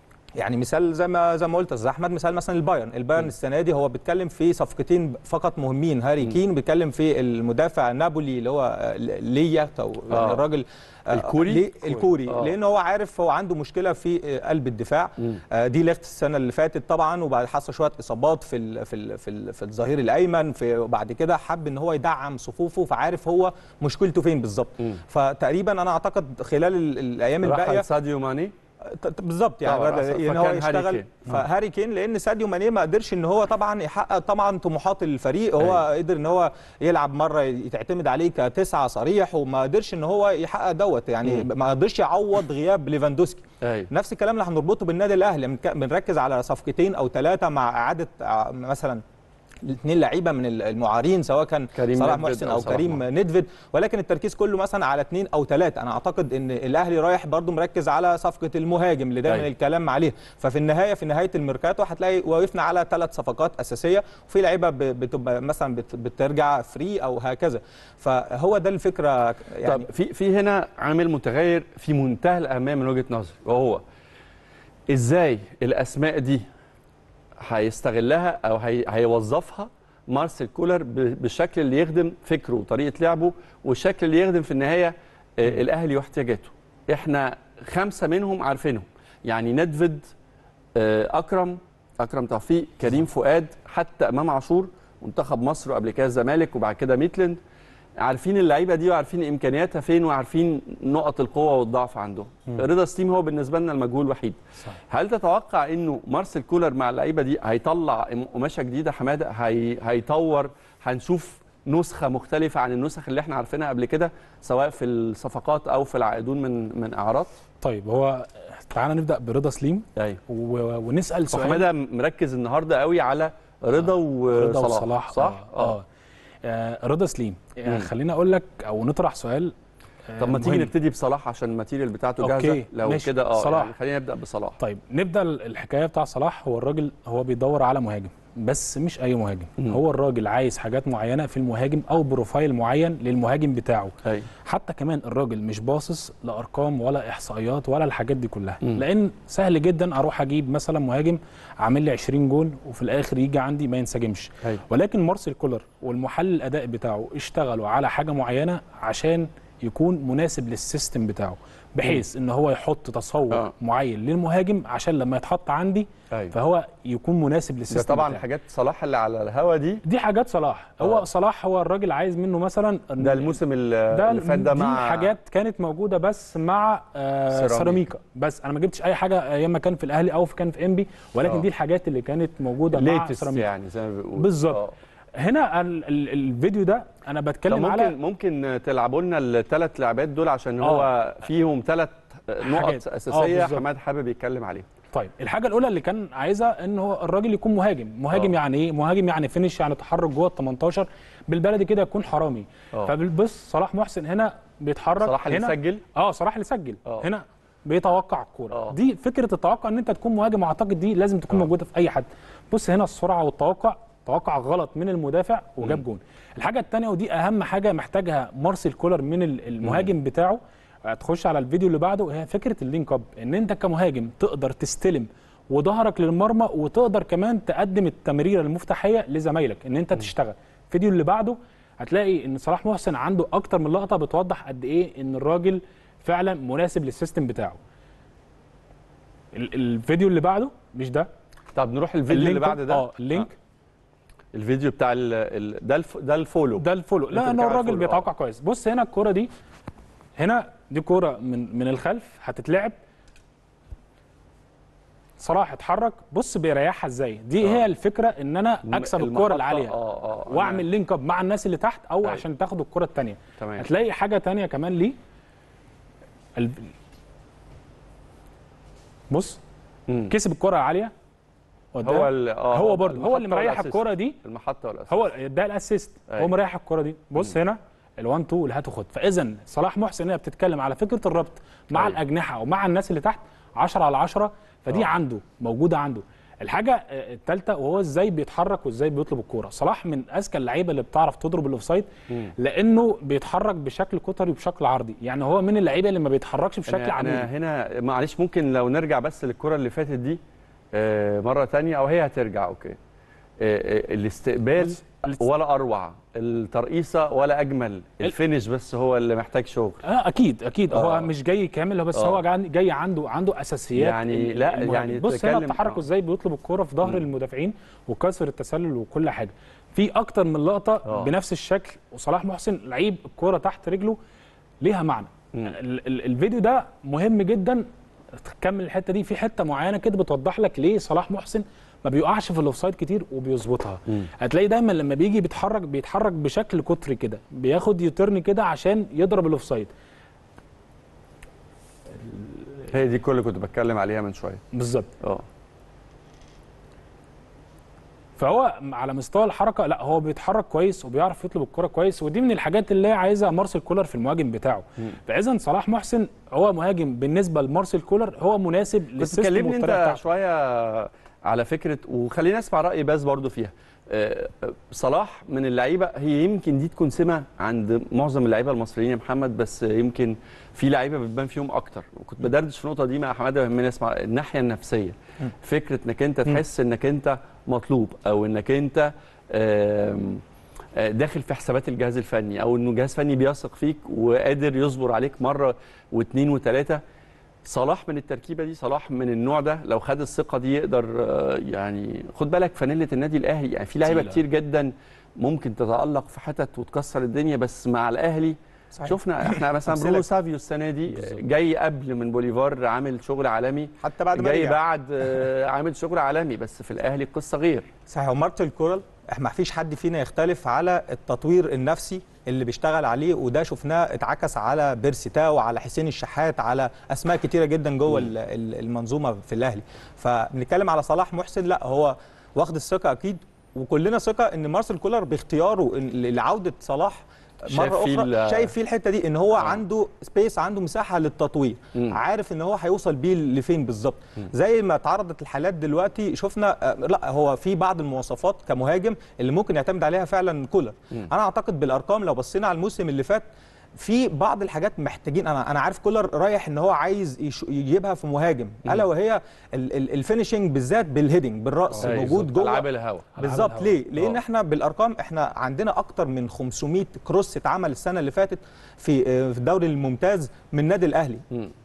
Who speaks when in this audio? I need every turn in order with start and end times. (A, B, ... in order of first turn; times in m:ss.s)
0:00.4-0:27.9 A
0:10.1-0:10.4 B
0:11.1-0:12.5 B
0:27.4-0:28.5 B
0:28.8-0:49.0 A
0:29.6-0:31.2 B
0:43.6-0:43.9 B
0:49.6-1:09.9 A
0:51.8-0:53.0 B
1:09.6-1:13.8 B
1:14.9-1:16.4 B
1:17.4-1:30.1 B
1:30.8-1:37.4 B
1:38.0-1:57.3 B
1:57.6-2:01.6 C
2:01.3-2:05.8 B
2:03.8-2:05.8 C
2:06.4-2:09.5 C
2:10.1-2:10.7 C
2:10.2-2:14.6 B
2:12.2-2:13.7 C
2:14.6-2:23.9 C
2:24.4-2:48.2 C
2:47.7-2:49.8 B
2:49.8-2:53.4 C
2:53.0-2:55.1 B
2:53.9-3:03.5 C
2:57.3-2:57.8 B
3:02.7-3:04.7 B
3:04.2-3:04.6 C
3:05.2-3:07.9 C
3:07.5-3:14.7 B
3:10.6-3:10.9 C
3:12.4-3:13.6 C
3:14.9-3:57.6 C
3:25.0-3:25.8 B
3:28.5-3:28.8 B
3:39.6-3:39.9 B
3:59.3-4:01.1 C
4:01.6-4:03.3 B
4:02.1-4:03.3 C
4:04.3-4:08.0 B
4:06.6-4:09.3 C
4:10.2-4:12.8 C
4:15.2-4:19.7 C
4:18.6-4:20.6 B
4:20.3-4:25.0 C
4:23.4-4:23.7 B
4:26.4-4:26.7 C
4:29.1-4:29.4 C
4:29.9-4:30.1 B
4:30.1-4:30.9 C
4:31.7-4:34.2 C
4:31.8-4:35.1 B
4:34.9-4:57.3 C
4:56.7-5:00.2 B
5:00.7-5:02.8 B
5:03.4-5:09.8 B
5:04.6-5:05.2 C
5:09.8-5:24.0 C
5:10.7-5:11.1 B
5:11.9-5:12.2 B
5:13.8-5:15.8 B
5:20.9-5:21.1 B
5:24.6-5:27.7 C
5:28.2-5:39.7 C
5:42.0-5:42.7 C
5:42.7-5:44.4 B
5:44.5-5:44.9 C
5:48.2-6:00.0 C
5:59.0-6:20.2 B
6:20.8-6:26.8 B
6:27.4-6:47.7 B
6:33.9-6:34.2 C
6:38.8-6:40.1 A
6:43.8-6:44.6 A
6:47.9-7:23.3 A
7:07.5-7:08.5 B
7:23.8-7:32.6 A
7:31.8-7:33.1 B
7:33.2-7:33.8 C
7:33.2-7:41.2 A